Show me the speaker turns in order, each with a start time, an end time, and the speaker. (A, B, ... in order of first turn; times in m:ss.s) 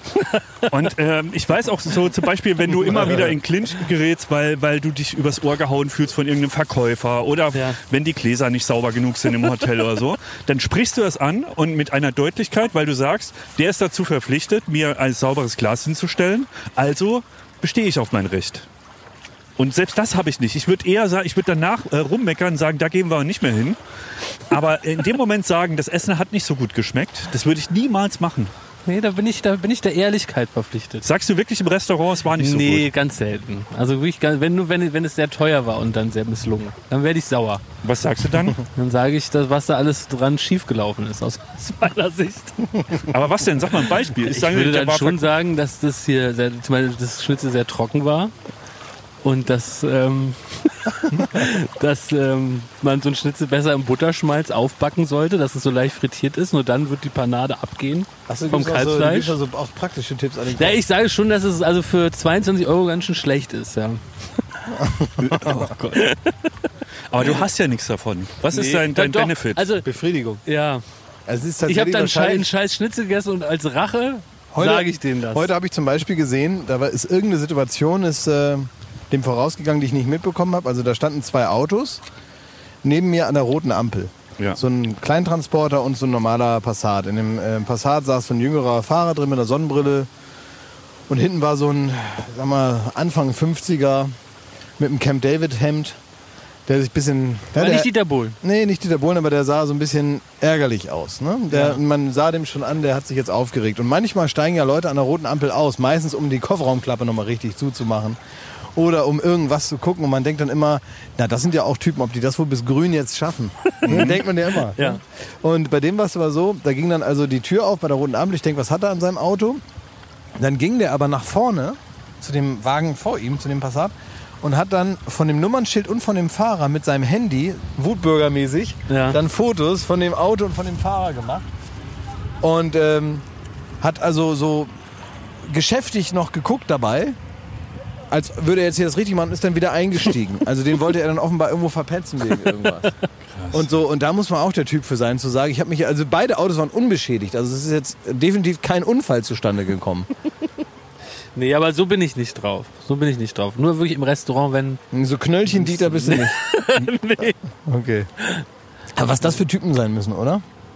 0:00.3-0:00.7 A
0:00.7-0:18.7 B
0:19.6-0:23.8 B
0:24.5-0:28.5 B
0:28.9-0:31.1 A
0:31.0-0:32.9 B
0:32.4-0:37.6 A
0:37.8-0:38.6 B
0:38.7-0:42.6 A
0:43.0-0:45.3 B
0:44.2-0:48.3 A
0:49.2-0:59.4 A
0:58.3-1:00.8 C
1:00.6-1:04.0 A
1:04.7-1:05.7 C
1:05.2-1:06.1 B
1:07.1-1:09.6 B
1:08.5-1:09.9 A
1:09.8-1:10.4 C
1:10.4-1:10.8 A
1:11.3-1:12.5 C
1:11.6-1:15.5 A
1:14.5-1:22.0 C
1:22.8-1:30.1 C
1:31.1-1:34.1 C
1:34.8-1:36.0 C
1:36.7-1:48.2 C
1:37.6-1:38.4 A
1:41.5-1:41.8 A
1:48.7-1:59.6 C
1:53.8-1:54.2 A
1:53.8-1:54.2 B
2:00.4-2:11.5 C
2:08.9-2:09.2 A
2:12.4-2:13.2 C
2:13.8-2:14.7 C
2:15.4-2:17.2 C
2:18.1-2:22.9 C
2:23.3-2:23.7 B
2:23.5-2:30.1 C
2:31.4-2:34.8 A
2:34.9-2:36.4 C
2:35.5-2:37.4 A
2:37.7-2:38.1 C
2:38.2-2:38.4 A
2:38.9-2:40.4 C